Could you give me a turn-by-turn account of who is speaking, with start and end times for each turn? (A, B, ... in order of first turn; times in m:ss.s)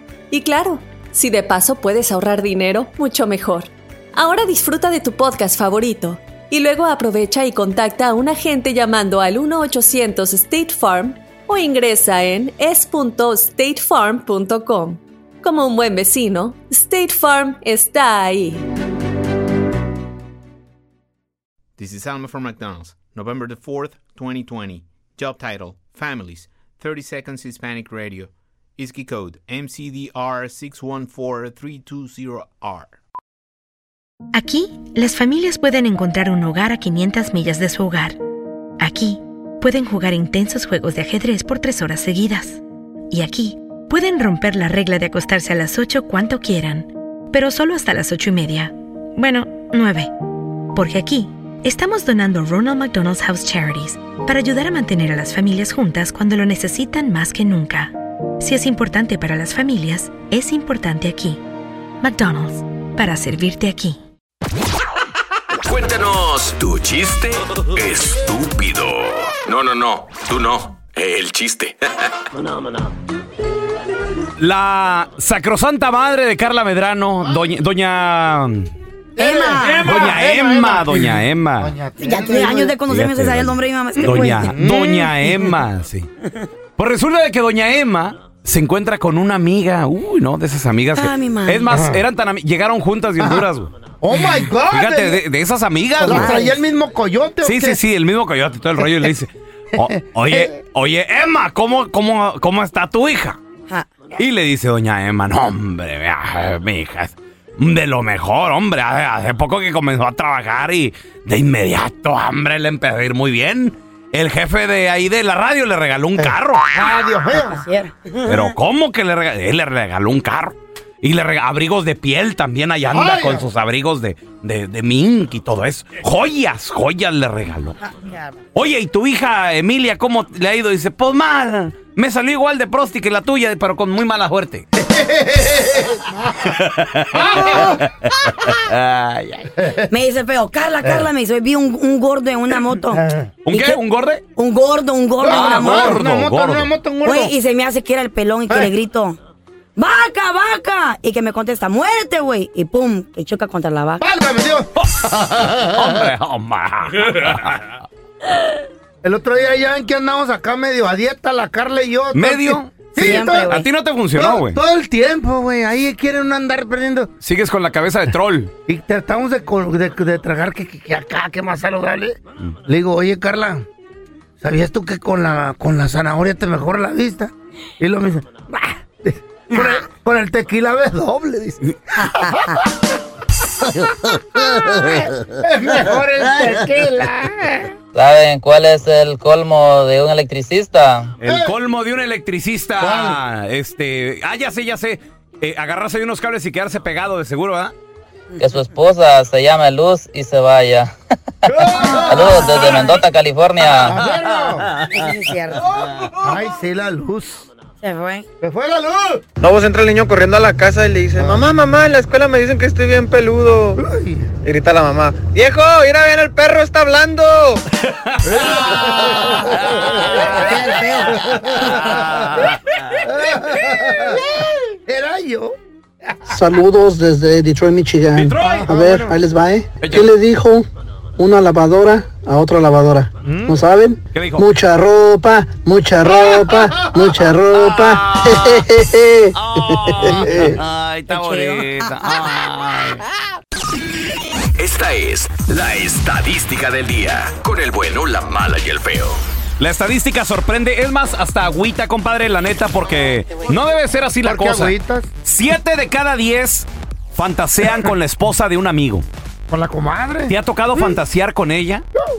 0:00.3-0:18.6 A
0:21.8-0:33.0 B
0:34.3-0:38.2 C
0:38.8-0:42.6 C
0:43.1-0:50.1 C
0:50.7-1:01.4 C
1:02.0-1:04.0 C
1:05.7-1:11.9 D
1:14.4-1:18.7 E
1:19.2-1:22.8 F
1:19.2-1:19.9 G
1:19.6-1:21.8 E
1:22.0-1:24.5 G
1:22.9-1:26.1 E
1:24.5-1:25.1 F
1:26.8-1:33.7 E
1:30.9-1:31.7 G
1:31.7-1:32.0 F
1:33.2-1:33.5 F
1:34.0-1:35.2 F
1:34.7-1:36.5 E
1:36.0-1:37.8 F
1:36.0-1:36.5 G
1:37.4-1:43.4 E
1:39.8-1:40.5 F
1:44.2-1:56.7 E
1:56.2-1:57.7 F
1:57.3-1:58.5 G
1:58.2-2:07.8 E
2:02.9-2:03.4 F
2:07.9-2:08.3 G
2:08.6-2:14.6 E
2:14.8-2:16.5 F
2:16.5-2:19.6 E
2:17.2-2:17.8 F
2:19.6-2:19.8 F
2:19.9-2:23.8 G
2:20.8-2:21.1 F
2:22.9-2:23.3 F
2:23.4-2:24.2 E
2:24.4-2:25.9 G
2:25.2-2:27.3 F
2:25.2-2:26.7 E
2:27.0-2:29.2 G
2:29.8-2:34.0 G
2:34.0-2:36.0 F
2:35.5-2:37.8 E
2:39.0-2:43.6 F
2:42.1-2:44.6 E
2:43.0-2:43.6 G
2:44.2-2:47.1 F
2:47.2-2:48.5 E
2:48.7-2:53.6 F
2:54.4-3:02.6 F
3:04.4-3:07.7 F
3:07.9-3:11.1 H
3:11.2-3:17.7 E
3:11.2-3:11.5 F
3:12.8-3:13.2 F
3:18.4-3:20.9 H
3:21.5-3:24.0 H
3:21.6-3:22.8 F
3:21.9-3:23.0 G
3:23.9-3:24.7 F
3:24.9-3:25.6 G
3:26.1-3:27.5 F
3:27.8-3:28.2 G
3:28.4-3:29.2 F
3:29.4-3:33.8 I
3:31.2-3:31.5 F
3:33.8-3:34.3 F
3:34.4-3:37.6 I
3:38.1-3:42.6 E
3:38.2-3:46.3 F
3:46.3-3:50.7 J
3:48.1-3:48.9 E
3:48.4-3:49.2 F
3:49.8-3:50.1 E
3:51.2-4:00.5 J
3:53.2-3:53.6 F
3:54.1-3:54.5 E
3:57.5-3:58.7 E
3:59.3-4:03.0 E
4:00.0-4:00.5 F
4:01.1-4:02.3 G
4:04.6-4:09.2 D
4:09.6-4:19.0 E
4:14.2-4:15.1 F
4:19.5-4:21.0 F
4:20.3-4:21.8 E